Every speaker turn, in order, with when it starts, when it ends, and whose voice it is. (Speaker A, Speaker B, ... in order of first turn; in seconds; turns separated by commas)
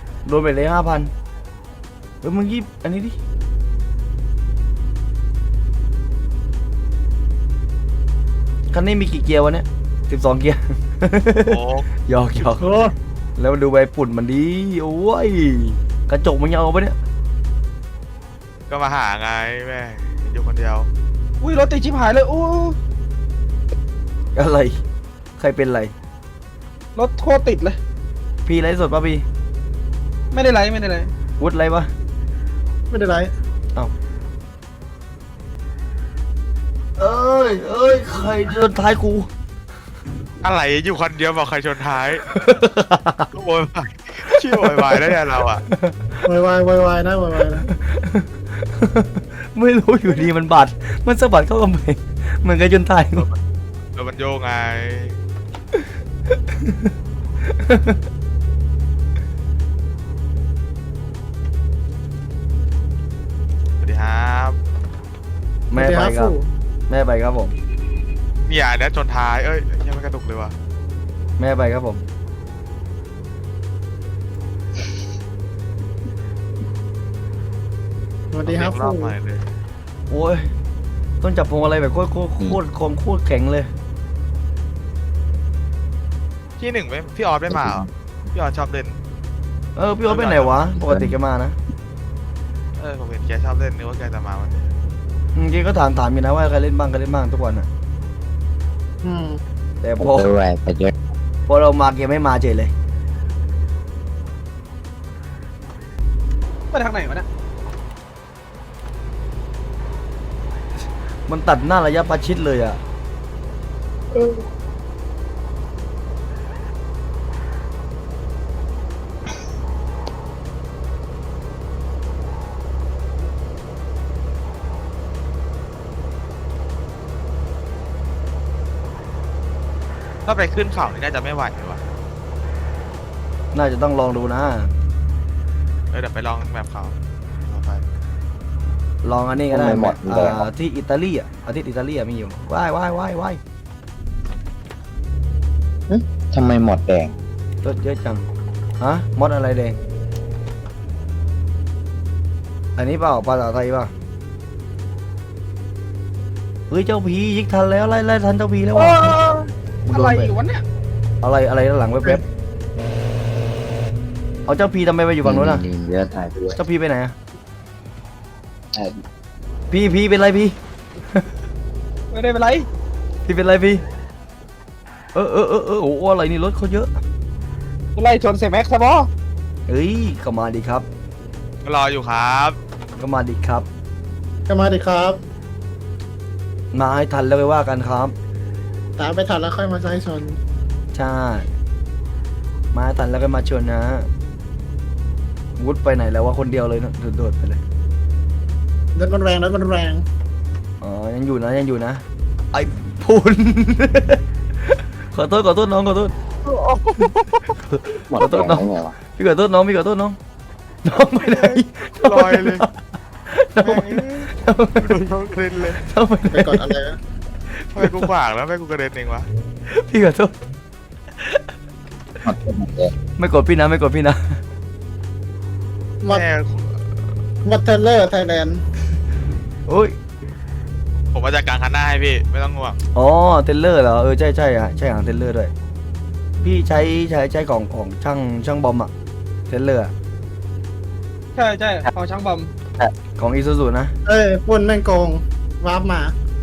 Speaker A: 0.2-1.1, Speaker A: 2.2-3.2, Speaker A: 8.7-12.7, Speaker B: 11.4-11.9, Speaker C: 12.6-12.9, Speaker A: 13.4-16.9, Speaker B: 18.7-20.9, Speaker D: 21.4-22.8, Speaker A: 24.3-24.8, Speaker A: 25.4-25.9, Speaker D: 26.9-27.8, Speaker A: 28.4-29.2, Speaker D: 30.3-31.1, Speaker A: 31.4-31.9, Speaker C: 32.9-33.3, Speaker A: 37.0-39.3, Speaker B: 40.4-42.2, Speaker A: 42.2-43.3, Speaker B: 43.3-45.6, Speaker A: 44.3-46.2, Speaker C: 46.2-47.7, Speaker A: 47.7-53.3, Speaker B: 53.9-55.2, Speaker A: 55.7-58.0, Speaker B: 63.8-64.5, Speaker A: 65.7-66.3, Speaker C: 65.7-66.5, Speaker A: 66.9-67.6, Speaker B: 68.5-70.5, Speaker A: 71.4-72.0, Speaker C: 78.3-79.1, Speaker B: 78.4-79.4, Speaker A: 80.1-80.5, Speaker A: 81.2-83.7, Speaker B: 86.6-88.9, Speaker E: 87.5-87.9, Speaker A: 89.8-91.5, Speaker B: 90.1-90.6, Speaker E: 90.8-91.1, Speaker B: 92.8-94.7, Speaker A: 95.3-97.7, Speaker C: 99.0-99.4, Speaker A: 99.8-100.3, Speaker E: 100.0-100.9, Speaker A: 101.5-102.7, Speaker D: 106.7-107.3, Speaker A: 111.3-112.8, Speaker D: 114.1-114.4, Speaker B: 130.2-131.8, Speaker A: 133.5-134.7, Speaker B: 135.9-136.9, Speaker B: 137.4-137.8, Speaker A: 139.0-143.4, Speaker E: 139.5-140.4, Speaker E: 145.9-147.1, Speaker A: 147.6-148.2, Speaker A: 148.8-149.8, Speaker A: 152.8-153.9, Speaker A: 156.7-159.2, Speaker D: 158.7-160.6, Speaker A: 159.9-160.3, Speaker A: 161.2-162.2, Speaker A: 164.5-165.6, Speaker E: 165.2-166.6, Speaker A: 166.6-167.1, Speaker A: 169.7-170.6, Speaker D: 172.1-172.7, Speaker A: 173.2-173.8, Speaker A: 175.1-176.9, Speaker D: 177.9-179.1, Speaker A: 179.7-180.8, Speaker B: 181.6-182.6, Speaker A: 183.0-183.7, Speaker C: 184.5-185.2, Speaker A: 186.7-188.1, Speaker C: 189.0-190.4, Speaker A: 190.9-191.5, Speaker A: 192.7-194.1, Speaker A: 195.6-197.6, Speaker C: 198.9-200.0, Speaker A: 200.8-206.1, Speaker B: 206.4-207.1, Speaker A: 207.7-210.2, Speaker E: 208.0-208.9, Speaker A: 210.8-212.7, Speaker B: 211.2-212.6, Speaker A: 213.3-215.0, Speaker B: 213.6-214.3, Speaker B: 214.8-215.8, Speaker A: 215.8-216.7, Speaker C: 216.3-217.0, Speaker A: 217.6-218.1, Speaker B: 217.8-219.3, Speaker A: 219.7-220.3, Speaker E: 222.2-222.9, Speaker A: 223.2-224.4, Speaker B: 226.1-226.8, Speaker C: 227.4-228.6, Speaker A: 229.7-229.9, Speaker B: 231.1-232.8, Speaker A: 232.9-235.5, Speaker A: 236.4-238.9, Speaker A: 239.5-239.9, Speaker D: 241.3-242.5, Speaker A: 243.2-243.9, Speaker C: 244.1-246.1